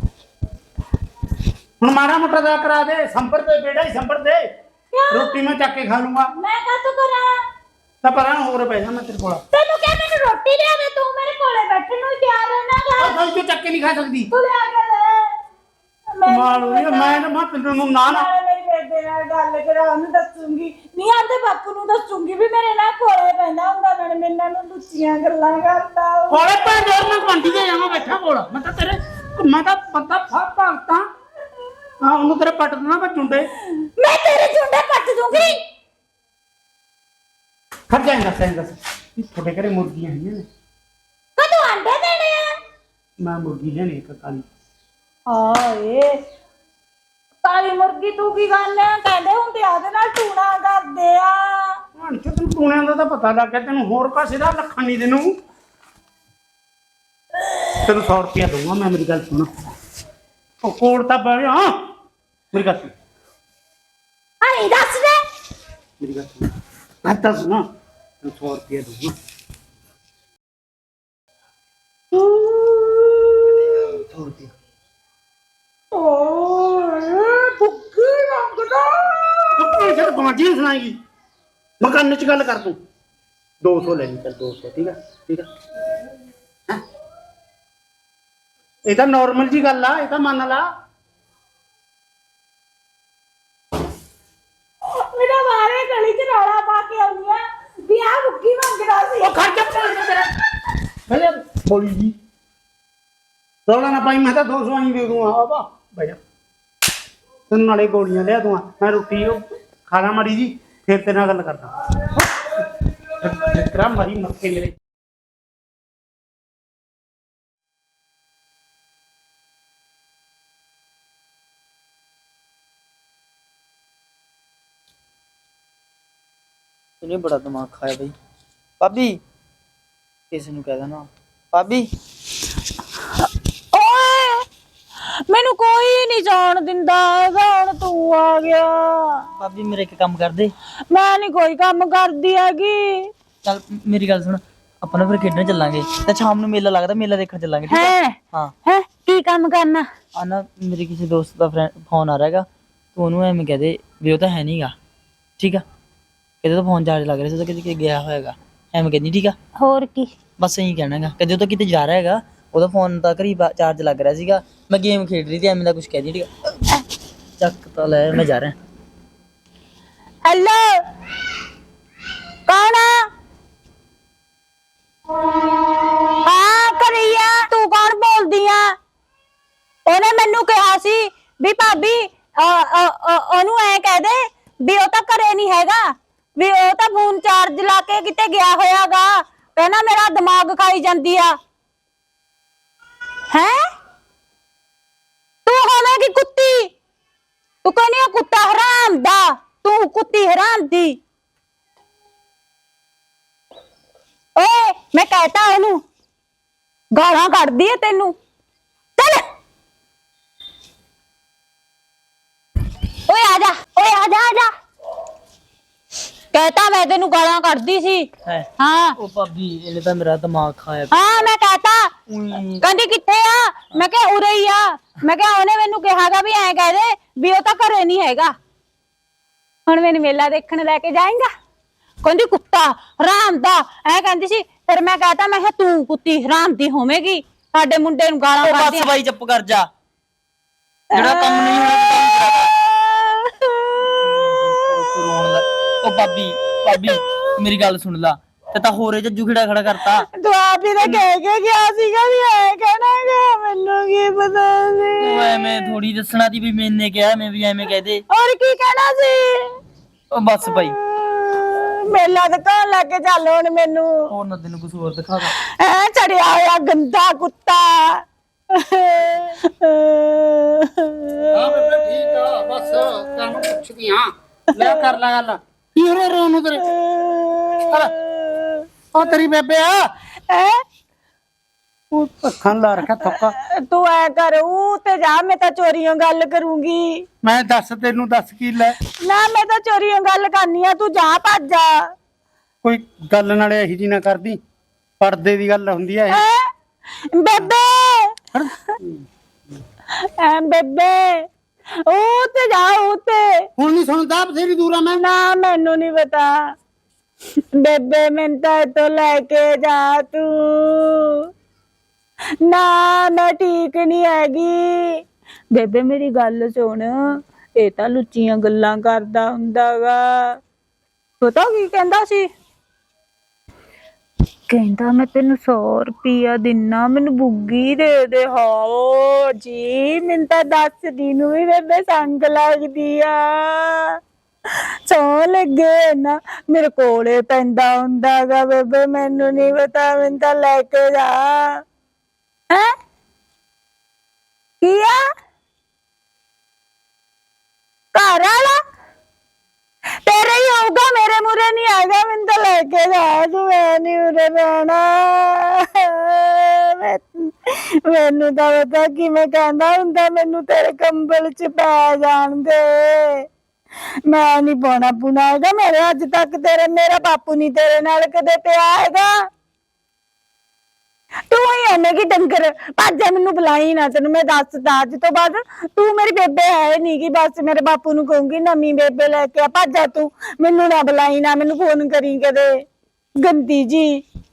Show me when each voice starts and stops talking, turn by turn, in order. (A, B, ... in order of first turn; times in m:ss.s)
0:01.8-0:04.4 A
0:04.9-0:05.4 B
0:05.1-0:06.3 A
0:06.4-0:07.4 B
0:08.0-0:09.4 A
0:09.5-0:13.1 B
0:13.0-0:14.3 A
0:14.3-0:15.3 B
0:16.1-0:17.2 B
0:16.3-0:18.3 A
0:18.1-0:28.1 B
0:26.3-0:31.0 A
0:32.0-0:33.4 A
0:33.8-0:35.6 B
0:37.9-0:40.4 A
0:41.4-0:42.5 B
0:43.2-0:44.4 A
0:45.3-0:46.2 B
0:47.4-0:51.7 B
0:52.0-0:55.2 A
0:57.8-0:59.7 A
1:00.6-1:01.7 A
1:02.5-1:02.9 A
1:04.4-1:05.2 B
1:06.0-1:06.5 A
1:07.0-1:07.6 A
1:08.2-1:09.1 A
1:12.3-1:13.3 B
1:13.8-1:14.5 A
1:15.9-1:19.8 B
1:19.6-1:21.0 A
1:21.8-1:22.8 A
1:23.6-1:25.5 A
1:28.9-1:30.6 A
1:34.9-1:39.8 B
1:39.2-1:40.3 A
1:41.1-1:42.1 A
1:43.7-1:46.2 A
1:47.5-1:51.7 A
1:53.2-1:54.8 A
2:07.0-2:08.1 C
2:08.8-2:09.2 C
2:10.3-2:11.9 C
2:13.7-2:14.4 B
2:15.3-2:19.3 B
2:19.4-2:20.5 C
2:20.9-2:23.1 B
2:23.4-2:28.5 C
2:27.7-2:29.8 B
2:30.1-2:34.7 C
2:35.4-2:35.6 C
2:36.4-2:39.4 C
2:39.6-2:40.1 B
2:40.4-2:46.3 C
2:47.4-2:48.6 C
2:50.2-2:50.8 B
2:52.5-2:53.0 B
2:56.2-2:58.7 B
2:59.9-3:05.8 B
3:06.4-3:11.3 B
3:13.3-3:13.6 B
3:15.4-3:16.7 B
3:17.6-3:21.0 B
3:24.4-3:25.8 B
3:26.9-3:28.1 B
3:29.0-3:29.2 B
3:33.1-3:34.5 B
3:36.3-3:39.0 B
3:38.2-3:41.3 C
3:40.9-3:41.9 B
3:42.1-3:42.6 C
3:42.6-3:48.3 B
3:49.7-3:51.3 B
3:52.0-3:58.9 B
3:58.4-3:59.7 C
4:00.9-4:01.7 B
4:00.9-4:02.5 C
4:02.6-4:03.8 B
4:03.9-4:10.0 C
4:10.1-4:15.4 B
4:15.0-4:18.0 C
4:18.1-4:19.5 B
4:20.1-4:20.8 C
4:21.2-4:24.1 B
4:24.1-4:25.3 C
4:25.4-4:31.4 B
4:31.3-4:36.7 A
4:34.6-4:34.9 B
4:36.6-4:38.6 B
4:38.9-4:39.9 A
4:40.3-4:40.6 B
4:41.9-4:43.4 A
4:43.1-4:47.0 B
4:47.2-4:48.7 A
4:49.0-4:51.8 B
4:52.6-4:54.4 A
4:55.0-4:56.2 A
4:56.1-4:56.5 B
4:57.1-4:58.2 B
4:58.3-4:59.0 A
5:00.0-5:01.2 B
5:01.8-5:03.4 B
5:03.6-5:05.0 A
5:05.0-5:06.5 B
5:07.5-5:11.3 B
5:12.4-5:15.0 B
5:15.5-5:20.4 B
5:21.2-5:22.3 B
5:24.5-5:33.9 B
5:34.9-5:41.5 B
5:44.6-5:45.0 B
5:47.9-5:48.6 B
5:50.0-6:03.2 B
6:04.1-6:09.1 B
6:11.3-6:22.6 B
6:23.2-6:24.0 B